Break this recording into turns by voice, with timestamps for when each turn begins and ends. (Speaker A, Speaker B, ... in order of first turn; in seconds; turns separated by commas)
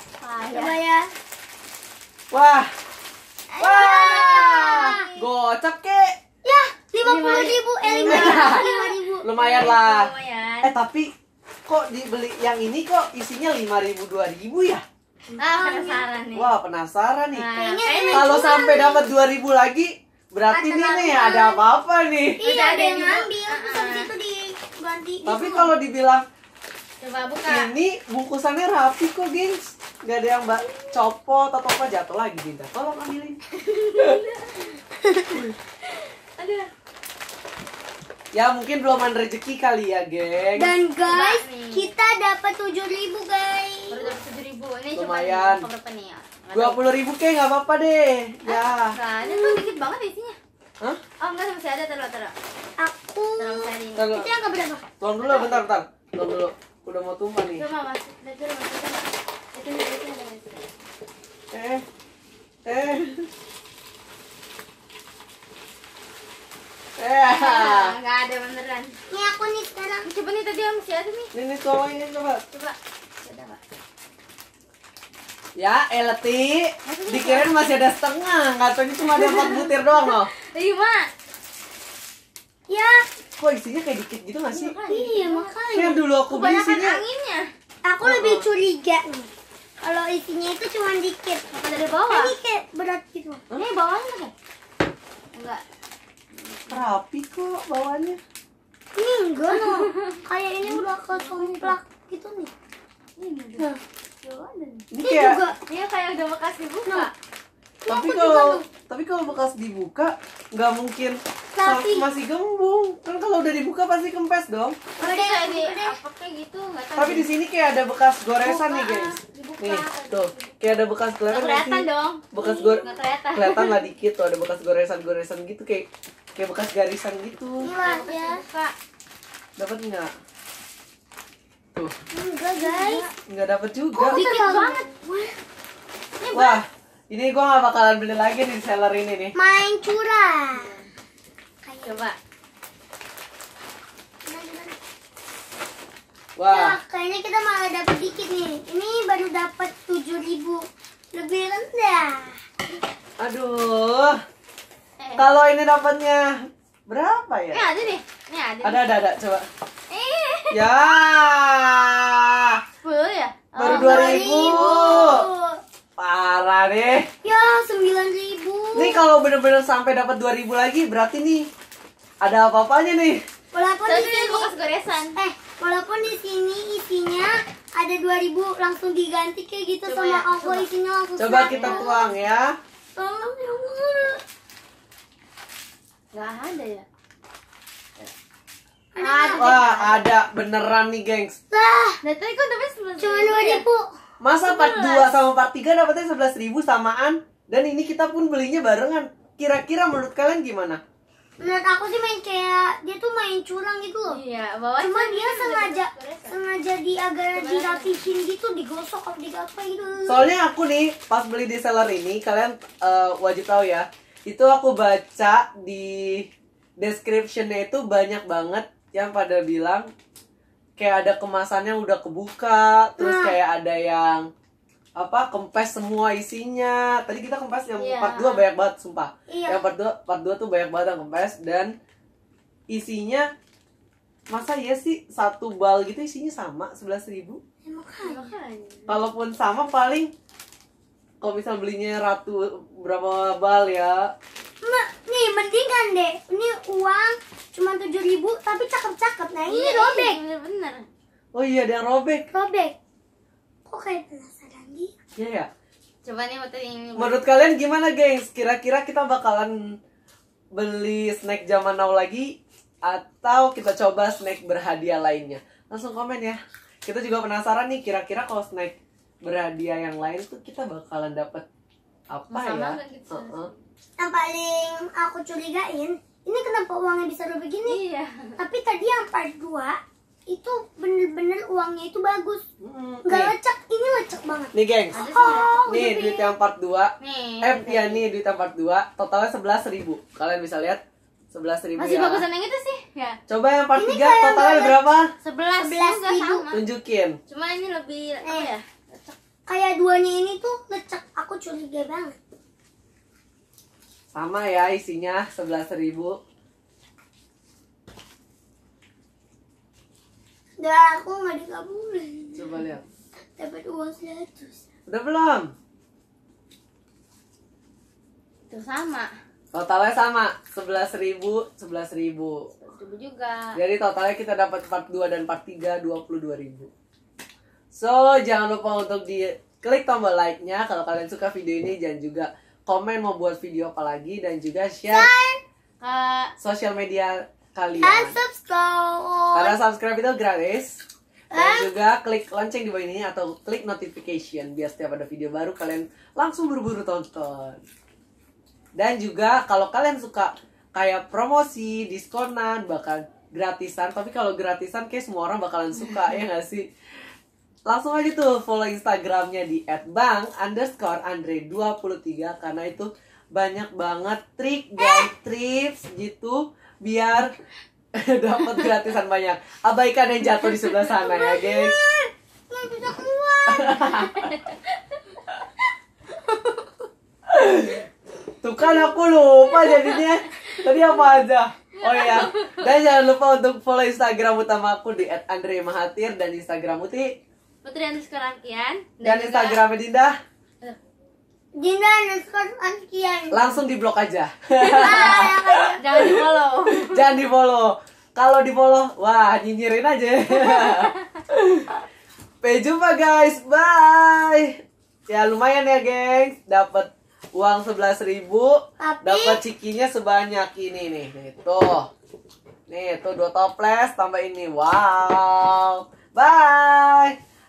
Speaker A: 0.2-0.8, Speaker B: 0.5-1.1, Speaker C: 2.3-2.7, Speaker A: 3.5-5.2, Speaker C: 3.6-6.2, Speaker B: 3.7-5.1, Speaker B: 6.4-9.3, Speaker A: 7.0-10.7, Speaker C: 8.1-8.7, Speaker C: 9.2-10.1, Speaker C: 10.6-11.1, Speaker C: 11.7-14.8, Speaker A: 15.4-16.5, Speaker B: 15.4-16.1, Speaker C: 16.3-17.5, Speaker A: 17.3-18.3, Speaker B: 17.6-19.1, Speaker C: 18.1-22.4, Speaker B: 20.5-21.6, Speaker A: 22.4-24.1, Speaker B: 22.4-25.7, Speaker C: 25.3-26.2, Speaker A: 27.0-27.7, Speaker C: 27.5-33.4, Speaker A: 30.6-30.9, Speaker A: 33.5-34.8, Speaker B: 35.0-35.4, Speaker A: 35.9-36.7, Speaker C: 38.3-40.7, Speaker B: 40.6-44.1, Speaker A: 41.1-41.9, Speaker A: 43.9-46.8, Speaker C: 45.0-45.7, Speaker C: 46.5-49.0, Speaker A: 48.5-50.4, Speaker B: 49.2-49.7, Speaker A: 51.2-52.4, Speaker B: 52.8-54.8, Speaker A: 53.4-54.1, Speaker C: 54.0-54.3, Speaker C: 55.0-57.7, Speaker A: 55.3-55.6, Speaker A: 57.5-60.7, Speaker C: 61.5-61.8, Speaker C: 62.7-63.3, Speaker C: 67.0-67.9, Speaker A: 67.3-69.0, Speaker B: 69.1-70.1, Speaker A: 70.0-71.3, Speaker C: 71.3-72.4, Speaker A: 72.5-73.6, Speaker C: 75.6-80.3, Speaker A: 76.9-77.5, Speaker A: 79.0-81.1, Speaker B: 82.7-83.0, Speaker C: 83.4-84.8, Speaker A: 84.5-85.6, Speaker B: 84.9-86.0, Speaker C: 85.7-87.0, Speaker A: 86.3-87.5, Speaker B: 87.8-89.3, Speaker C: 88.0-88.5, Speaker B: 89.8-91.5, Speaker A: 91.5-92.3, Speaker B: 92.1-93.4, Speaker A: 93.5-94.3, Speaker A: 95.3-95.6, Speaker A: 96.3-96.9, Speaker C: 96.7-98.2, Speaker B: 99.0-102.5, Speaker A: 99.5-101.8, Speaker A: 103.2-103.7, Speaker A: 104.2-104.9, Speaker C: 104.9-105.4, Speaker B: 105.0-105.6, Speaker A: 105.6-107.1, Speaker B: 107.8-108.7, Speaker C: 107.9-114.8, Speaker B: 111.5-112.1, Speaker B: 115.0-116.0, Speaker A: 115.0-117.3, Speaker C: 117.0-127.7, Speaker A: 118.4-120.5, Speaker A: 121.3-123.8, Speaker B: 122.4-122.8, Speaker B: 127.6-128.4, Speaker A: 127.8-128.7, Speaker C: 129.6-130.1, Speaker B: 132.1-133.1, Speaker A: 132.6-133.1, Speaker C: 133.3-134.4, Speaker B: 133.9-135.4, Speaker A: 134.1-134.8, Speaker A: 136.2-136.6, Speaker C: 136.3-139.3, Speaker B: 139.4-140.7, Speaker A: 140.5-140.9, Speaker B: 141.7-142.1, Speaker A: 141.8-142.2, Speaker B: 144.3-144.8, Speaker C: 146.4-146.8, Speaker B: 146.5-152.4, Speaker C: 153.2-154.2, Speaker A: 155.0-155.3, Speaker C: 155.2-156.4, Speaker C: 156.9-157.7, Speaker A: 157.5-158.9, Speaker C: 158.6-159.5, Speaker A: 159.9-160.6, Speaker C: 160.5-162.6, Speaker A: 162.8-165.3, Speaker C: 163.6-165.3, Speaker B: 163.6-165.6, Speaker C: 166.0-167.1, Speaker B: 167.2-169.0, Speaker C: 168.8-171.5, Speaker C: 172.2-173.2, Speaker B: 173.5-174.5, Speaker A: 173.9-175.2, Speaker B: 175.2-182.1, Speaker A: 179.9-180.7, Speaker C: 181.2-182.6, Speaker A: 181.5-181.9, Speaker B: 183.0-184.2, Speaker A: 186.1-186.9, Speaker B: 188.9-189.8, Speaker A: 189.0-190.1, Speaker C: 189.4-191.4, Speaker B: 191.5-192.0, Speaker A: 192.0-193.7, Speaker B: 193.0-193.9, Speaker C: 194.2-200.8, Speaker A: 194.4-195.1, Speaker B: 201.4-204.2, Speaker A: 204.1-206.4, Speaker B: 204.8-210.3, Speaker A: 207.3-208.1, Speaker C: 210.1-216.3, Speaker C: 216.8-219.9, Speaker C: 220.8-224.3, Speaker B: 223.0-223.4, Speaker C: 225.0-231.7, Speaker A: 227.8-228.4, Speaker B: 229.3-229.6, Speaker C: 232.7-233.3, Speaker C: 234.3-237.4, Speaker B: 237.7-238.3, Speaker A: 238.0-239.0, Speaker C: 238.9-240.1, Speaker C: 241.2-244.1, Speaker B: 244.6-250.2, Speaker A: 249.5-250.9, Speaker C: 251.3-252.3, Speaker B: 252.3-252.8, Speaker B: 253.7-254.9, Speaker C: 255.2-255.5, Speaker A: 256.1-257.3, Speaker C: 257.0-259.6, Speaker C: 260.6-271.5, Speaker C: 272.1-273.5, Speaker A: 272.3-273.6, Speaker B: 274.0-277.8, Speaker A: 277.6-278.4, Speaker B: 278.4-279.8, Speaker B: 280.3-282.4, Speaker C: 282.6-283.3, Speaker B: 283.1-286.3, Speaker C: 284.5-285.0, Speaker A: 284.9-285.9, Speaker C: 285.7-290.8, Speaker A: 287.0-288.0, Speaker C: 291.3-292.2, Speaker A: 291.8-293.2, Speaker C: 293.3-295.1, Speaker B: 293.8-294.8, Speaker A: 295.2-296.6, Speaker B: 295.6-296.5, Speaker C: 296.5-297.2, Speaker A: 297.3-299.1, Speaker B: 298.2-298.5, Speaker B: 299.5-302.2, Speaker C: 304.1-306.2, Speaker B: 310.6-312.6, Speaker C: 312.4-312.8, Speaker B: 313.4-314.6, Speaker C: 314.9-315.5, Speaker A: 318.5-319.1, Speaker C: 319.5-322.5, Speaker A: 322.6-323.6, Speaker C: 323.6-326.7, Speaker C: 327.7-335.1, Speaker B: 334.9-335.4, Speaker A: 335.8-336.3, Speaker C: 336.4-338.2, Speaker B: 337.8-339.6, Speaker C: 339.3-340.8, Speaker B: 341.3-341.7, Speaker C: 341.3-347.6, Speaker C: 348.8-356.7, Speaker C: 357.7-367.3, Speaker B: 364.8-365.1, Speaker C: 368.0-371.8, Speaker B: 371.0-374.1, Speaker C: 373.5-374.3, Speaker C: 377.3-377.9, Speaker C: 378.4-387.1, Speaker A: 381.7-382.7, Speaker A: 387.6-389.6, Speaker C: 389.0-390.1, Speaker B: 391.6-393.5, Speaker C: 393.3-401.7, Speaker A: 394.6-397.1, Speaker B: 394.7-395.8, Speaker A: 400.4-400.9, Speaker C: 402.4-404.5, Speaker C: 405.1-411.9, Speaker B: 408.8-409.4, Speaker C: 412.7-417.1